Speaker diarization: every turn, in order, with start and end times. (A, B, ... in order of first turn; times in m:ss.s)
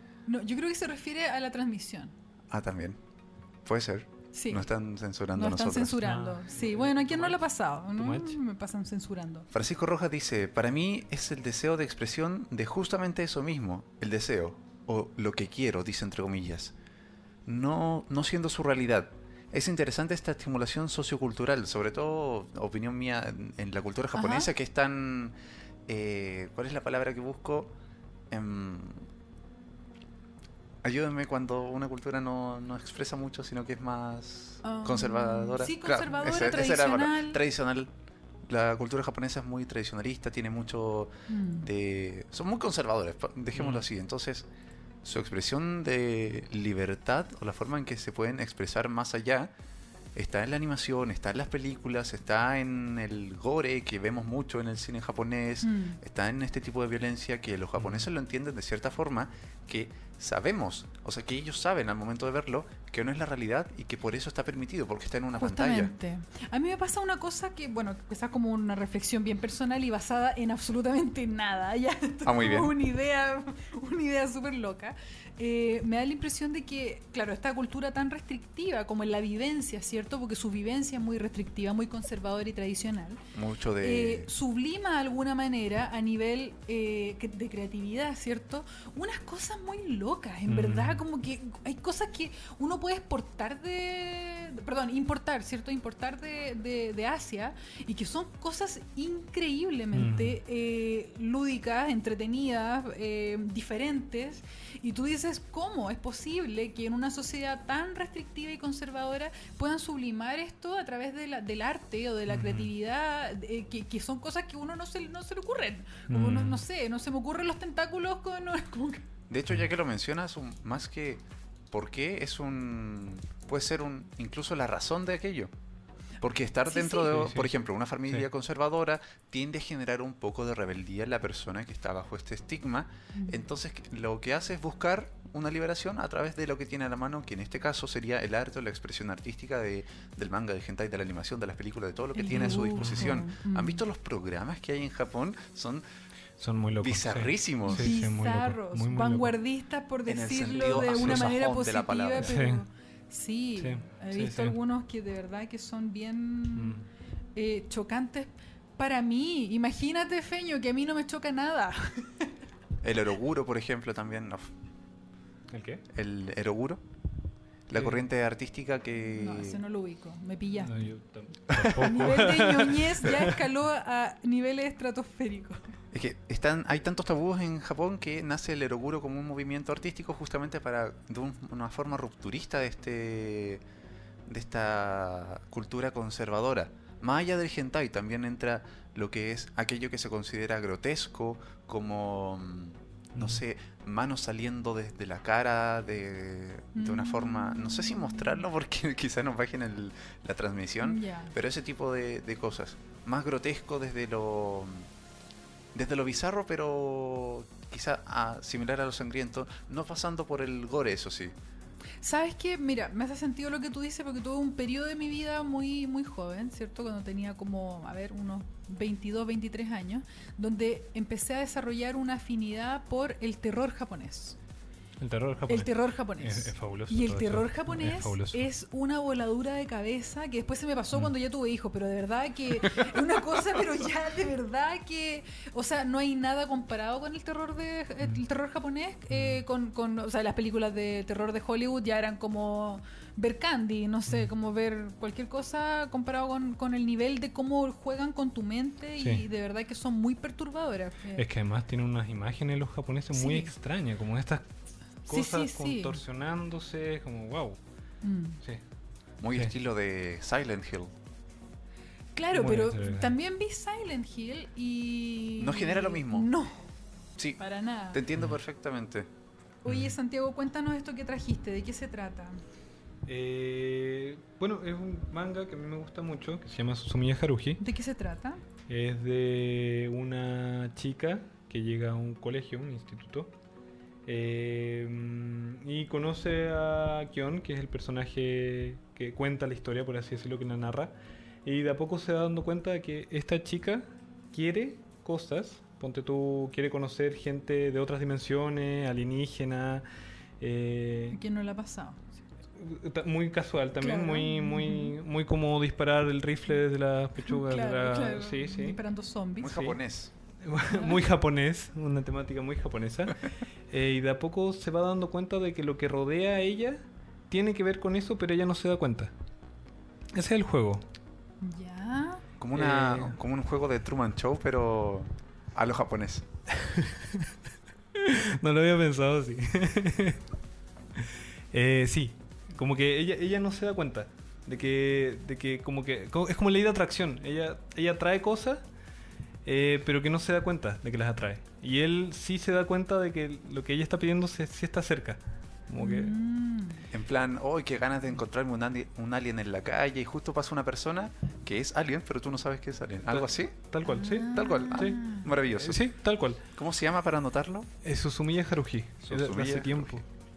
0:00.2-0:02.1 A
0:02.5-0:03.0 B
0:03.6-0:06.0 B
0:04.3-0:04.7 A
0:05.3-0:09.5 A
0:06.0-0:08.4 C
0:09.5-0:16.7 B
0:17.4-0:25.3 B
0:24.1-0:24.5 A
0:25.9-0:27.7 B
0:28.3-0:29.0 B
0:30.8-0:37.9 B
0:34.6-0:37.4 A
0:38.4-0:44.5 B
0:41.3-0:41.7 A
0:43.6-0:43.8 C
0:45.0-0:49.5 B
0:50.1-1:05.9 B
0:55.6-0:56.0 A
1:05.4-1:23.2 A
1:12.2-1:12.7 B
1:23.3-1:24.3 B
1:23.8-1:59.0 A
1:30.5-1:31.0 C
1:39.9-1:40.4 C
1:52.3-1:52.7 C
1:56.1-1:56.6 C
1:59.3-2:05.5 B
2:06.2-2:25.8 B
2:06.6-2:07.2 A
2:07.1-2:07.5 C
2:13.1-2:13.4 A
2:22.1-2:23.8 A
2:22.8-2:23.2 C
2:26.4-2:29.3 C
2:26.8-2:27.9 B
2:27.7-2:36.8 A
2:30.1-2:32.3 B
2:30.5-2:31.3 C
2:32.2-2:32.6 C
2:33.6-2:34.6 C
2:36.6-2:36.8 C
2:37.4-2:42.3 A
2:42.8-2:44.5 B
2:45.5-2:45.8 C
2:45.9-2:46.8 B
2:47.7-2:49.6 B
2:47.7-2:48.0 C
2:49.1-2:50.8 A
2:50.6-2:53.4 C
2:51.5-2:51.8 B
2:51.6-2:55.7 A
2:55.9-3:03.6 B
3:04.2-3:24.9 B
3:13.1-3:13.4 C
3:16.7-3:18.4 A
3:20.8-3:21.3 A
3:25.7-3:31.3 B
3:32.0-3:44.4 A
3:45.0-3:48.4 C
3:45.5-4:11.3 A
3:59.1-3:59.4 C
4:09.0-4:09.2 C
4:11.2-4:14.4 C
4:13.1-4:13.5 A
4:15.1-4:16.0 A
4:15.1-4:17.6 C
4:18.0-4:18.4 A
4:19.2-4:20.9 B
4:22.1-4:26.6 A
4:22.3-4:23.1 C
4:25.4-4:26.3 B
4:27.4-4:28.0 A
4:27.9-4:29.1 B
4:29.6-4:32.4 A
4:29.7-4:29.9 C
4:33.0-4:37.6 C
4:37.6-4:38.4 A
4:38.7-4:43.3 C
4:44.0-4:59.8 C
5:00.4-5:01.2 C
5:01.1-5:02.2 A
5:02.6-5:08.8 C
5:03.8-5:04.9 A
5:07.2-5:09.6 A
5:09.4-5:10.1 B
5:09.5-5:09.8 C
5:10.4-5:19.1 C
5:10.7-5:11.0 A
5:20.1-5:20.8 C
5:21.4-5:22.2 A
5:22.4-5:26.3 B
5:22.5-5:23.2 C
5:26.5-5:27.3 C
5:27.9-5:30.2 C
5:31.0-5:38.6 C
5:39.4-5:46.1 C
5:45.8-5:46.9 A
5:46.9-5:53.6 B
5:53.1-5:56.4 C
5:53.8-5:55.3 A
5:54.3-5:55.8 B
5:56.6-5:57.7 B
5:57.8-6:00.0 C
5:59.0-6:00.0 B